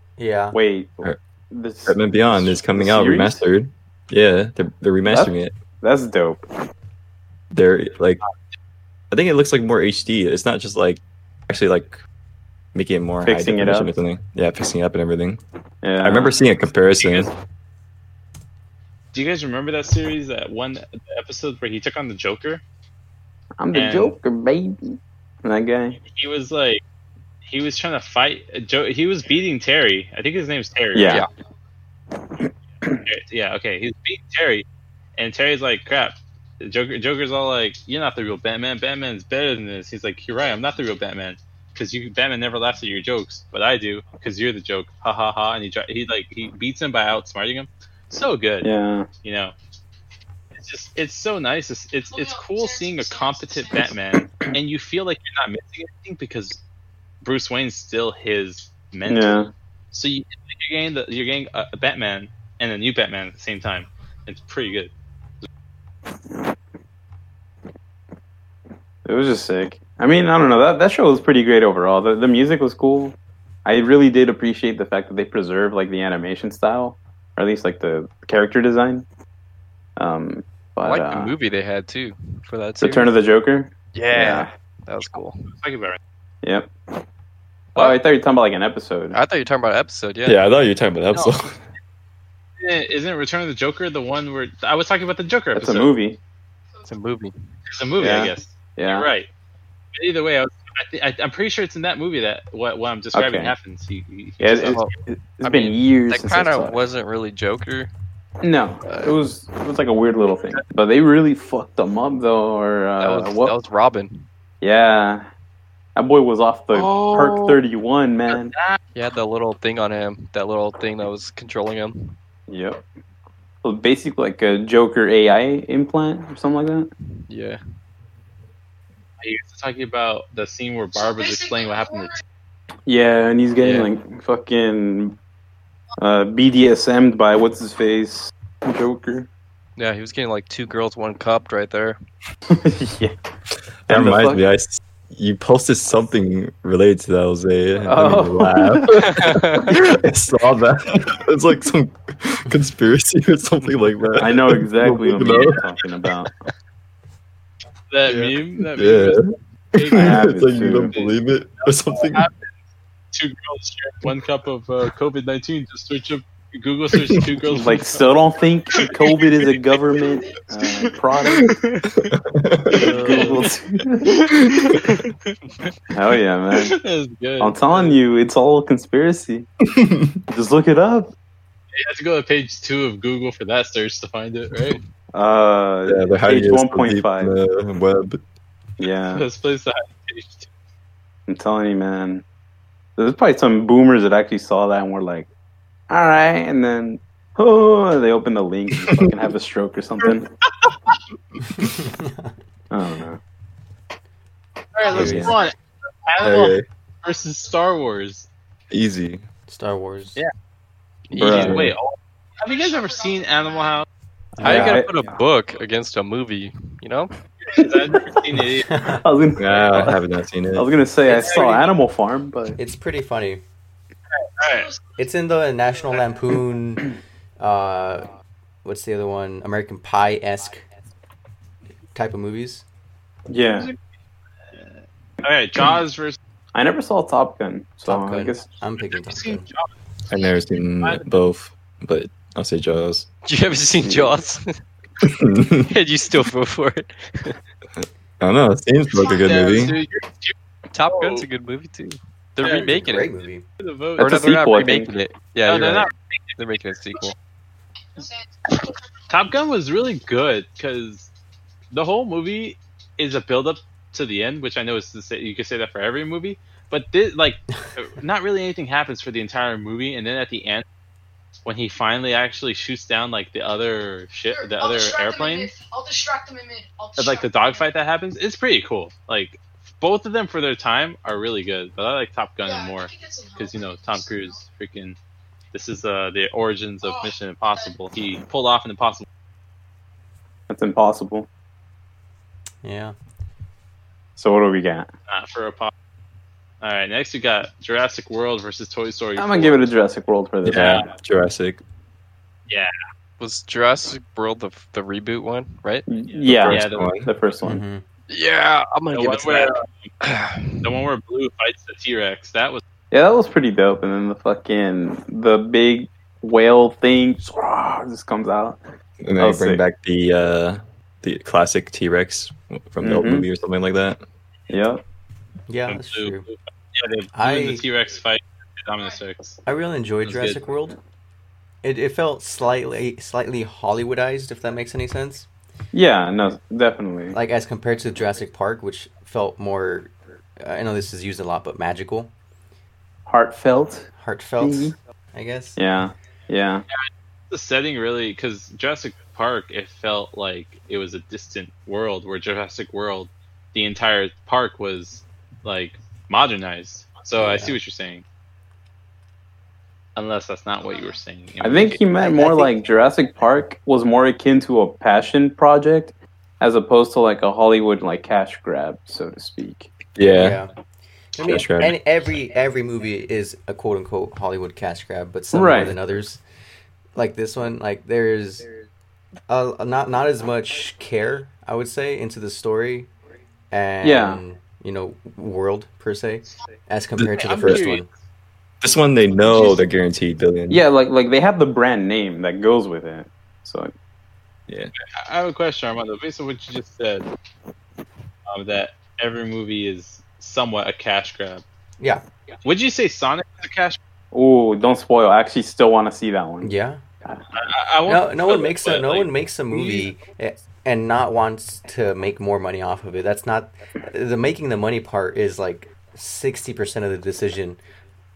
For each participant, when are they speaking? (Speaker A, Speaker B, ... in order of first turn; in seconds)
Speaker A: 0.2-0.6, 201.5-202.3, 209.5-210.2, 214.5-214.8, 218.5-219.0, 222.6-223.4, 225.0-228.1, 228.7-230.7, 231.9-232.6, 237.9-239.5, 252.4-253.4, 292.6-292.9, 307.4-307.8, 325.5-326.3, 327.1-327.6, 329.5-330.8, 331.6-335.3, 337.1-342.1, 344.0-345.6, 357.2-357.6, 362.0-362.5, 370.1-370.5, 371.1-376.2, 377.0-378.5, 379.3-382.9, 383.5-387.9, 406.4-406.8, 407.9-417.6
Speaker B: 0.5-3.4, 5.1-6.5, 13.2-13.9, 15.8-16.4, 23.6-26.0, 30.9-31.2, 32.3-33.0, 48.6-49.1, 54.2-54.5, 59.1-59.5, 69.0-79.1, 80.0-81.3, 82.8-84.5, 86.4-86.7, 87.8-89.2, 95.5-96.2, 98.0-99.1, 103.1-103.5, 104.4-106.8, 108.4-113.5, 114.6-115.3, 116.0-118.5, 122.5-122.8, 123.6-126.9, 132.9-135.2, 136.0-139.3, 142.5-143.2, 143.9-144.4, 147.9-148.5, 154.2-156.3, 159.9-160.9, 167.5-171.6, 172.7-174.2, 175.9-176.8, 177.4-179.5, 180.3-181.1, 185.1-187.3, 188.8-189.2, 191.3-192.2, 193.0-195.3, 195.9-200.3, 202.7-203.2, 205.0-205.2, 211.2-211.7, 214.4-215.1, 217.5-218.2, 219.0-220.0, 220.6-222.6, 233.3-233.7, 236.5-238.5, 243.8-244.1, 254.0-254.9, 290.5-291.3, 294.2-294.9, 299.2-300.8, 305.9-307.6, 312.9-318.6, 319.2-319.6, 322.8-323.3, 324.5-324.8, 335.7-337.2, 343.1-343.9, 344.4-344.8, 345.6-346.6, 361.4-369.7, 375.3-375.8, 383.8-384.2, 390.5-393.7, 404.1-406.5
Speaker C: 1.9-5.6, 7.5-8.2, 9.1-12.0, 12.7-15.4, 16.0-17.3, 90.2-91.6, 143.9-155.7, 158.1-162.3, 167.0-167.3, 172.1-173.0, 174.3-174.8, 179.7-180.2, 185.9-188.2, 204.9-205.4, 206.2-206.7, 208.7-209.2, 211.2-211.8, 219.4-220.7, 240.1-243.1, 245.0-245.7, 247.8-249.8, 300.4-301.6, 306.2-307.1, 319.0-324.0, 370.0-370.4, 371.2-371.8, 387.0-387.7, 388.6-390.6
Speaker D: 17.0-17.3, 19.1-22.6, 23.7-24.2, 26.1-26.8, 27.4-31.2, 33.1-34.7, 35.2-48.7, 49.2-49.5, 50.5-56.6, 57.2-64.9, 85.5-86.0, 91.1-91.4, 92.6-95.9, 97.7-99.3, 100.0-104.8, 116.7-117.6, 118.3-118.8, 129.2-132.2, 157.9-160.3, 161.9-162.5, 163.1-168.1, 168.8-169.8, 171.2-172.1, 172.7-173.5, 174.0-175.3, 176.5-178.0, 181.7-184.8, 189.1-190.5, 200.6-201.0, 204.7-208.3, 211.2-213.9, 217.4-218.7, 221.1-221.7, 224.1-224.7, 233.5-233.8, 235.2-236.2, 239.0-239.7, 248.9-250.3, 250.9-251.3, 252.4-252.7, 253.6-254.2, 255.5-256.4, 259.1-261.1, 261.7-270.6, 271.4-275.5, 277.0-285.0, 285.5-289.1, 295.1-295.7, 296.6-299.6, 300.5-300.9, 306.3-306.9, 308.9-309.9, 310.6-312.6, 325.7-329.4, 330.0-330.4, 346.8-358.1, 360.0-361.8, 387.1-387.9, 394.9-397.1, 398.3-401.4, 402.4-403.8, 407.4-409.9
Speaker E: 52.1-54.0, 130.9-132.2, 170.0-170.5, 204.9-205.5, 207.1-207.8, 212.4-213.9, 224.4-224.8, 248.9-249.8, 258.0-258.8, 274.3-277.7, 282.4-284.4, 286.8-287.8, 360.6-361.0
Speaker F: 80.8-83.1, 83.9-85.5, 89.1-90.4, 96.9-97.3, 104.7-107.9, 113.0-114.3, 118.9-122.2, 127.3-127.6, 133.6-133.9, 139.8-142.0, 147.9-149.8, 211.1-211.7, 214.4-217.1, 243.3-244.6, 245.7-247.4, 250.7-253.1, 254.0-257.2, 303.2-305.9, 308.1-310.6